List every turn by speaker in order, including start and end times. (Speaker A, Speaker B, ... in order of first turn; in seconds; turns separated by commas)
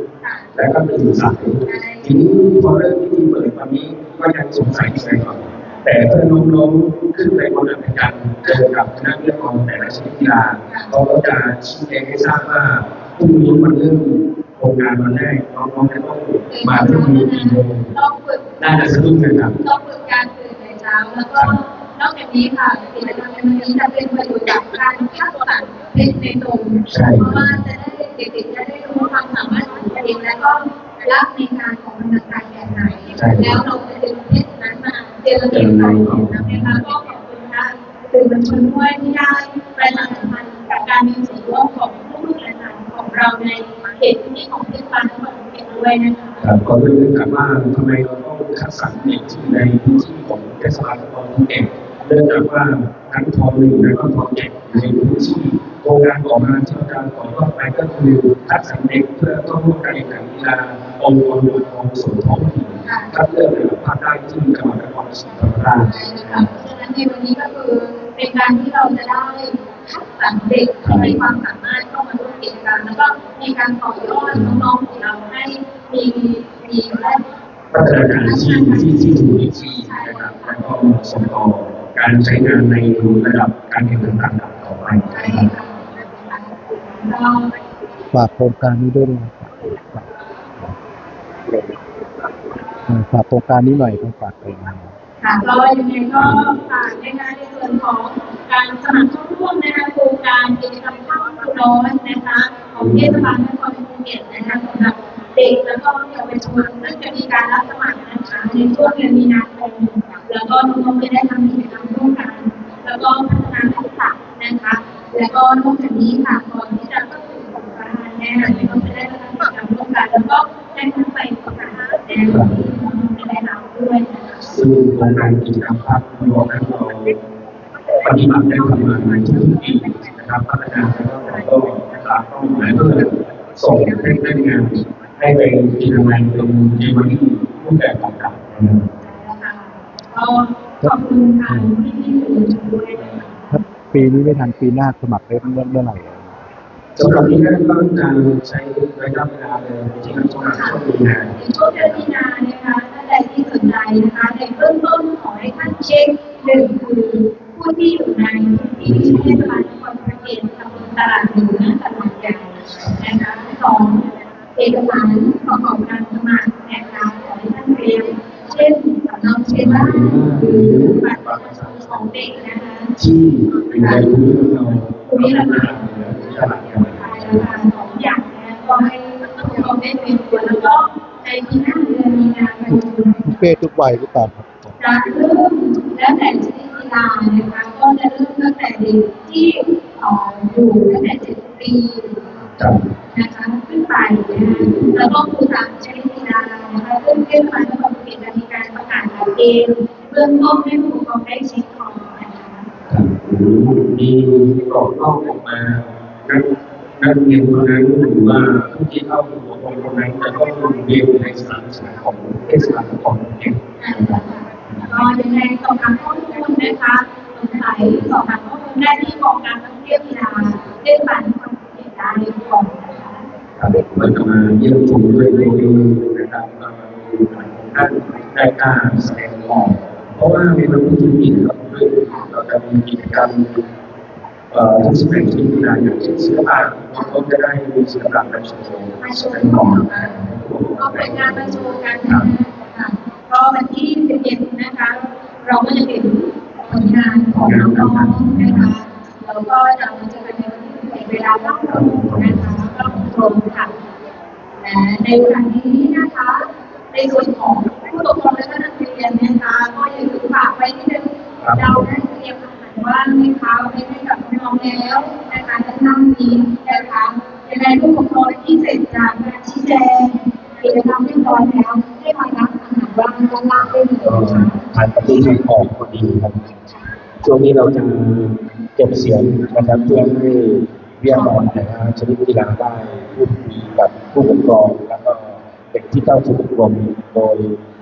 Speaker A: 0.2-0.5, Speaker B: 0.6-17.9, Speaker A: 1.6-2.1, Speaker A: 16.5-18.6, Speaker B: 18.6-19.6, Speaker A: 19.6-46.5, Speaker B: 26.9-27.6, Speaker B: 32.7-33.6, Speaker B: 35.5-36.9, Speaker B: 46.4-66.6, Speaker A: 62.9-63.1, Speaker A: 65.8-77.2, Speaker B: 70.8-71.2, Speaker B: 74.3-74.7, Speaker B: 77.7-85.5, Speaker A: 78.2-80.7, Speaker A: 85.1-87.5, Speaker C: 88.1-90.0, Speaker C: 92.9-94.9, Speaker A: 95.2-124.5, Speaker B: 96.2-96.4, Speaker B: 102.8-103.3, Speaker B: 118.4-118.9, Speaker B: 122.3-122.7, Speaker B: 124.5-127.2, Speaker B: 128.0-138.9, Speaker A: 139.0-143.6, Speaker C: 143.0-146.4, Speaker B: 147.0-152.1, Speaker A: 150.5-150.8, Speaker A: 151.4-172.9, Speaker B: 158.8-159.4, Speaker B: 162.7-163.1, Speaker B: 169.5-172.1, Speaker B: 173.0-177.5, Speaker A: 173.8-174.1, Speaker A: 175.1-176.1, Speaker A: 176.9-183.5, Speaker C: 183.3-184.7, Speaker A: 184.8-192.4, Speaker B: 192.4-192.9, Speaker A: 193.1-202.7, Speaker B: 194.3-195.3, Speaker B: 202.9-215.1, Speaker A: 213.8-223.3, Speaker B: 223.6-233.6, Speaker B: 234.5-242.3, Speaker A: 236.9-237.2, Speaker A: 239.0-240.3, Speaker A: 240.8-253.7, Speaker B: 247.3-248.7, Speaker B: 251.7-253.1, Speaker A: 254.6-275.4, Speaker B: 261.4-261.9, Speaker B: 274.0-276.4, Speaker A: 276.4-276.9, Speaker B: 277.2-287.6, Speaker A: 281.1-281.4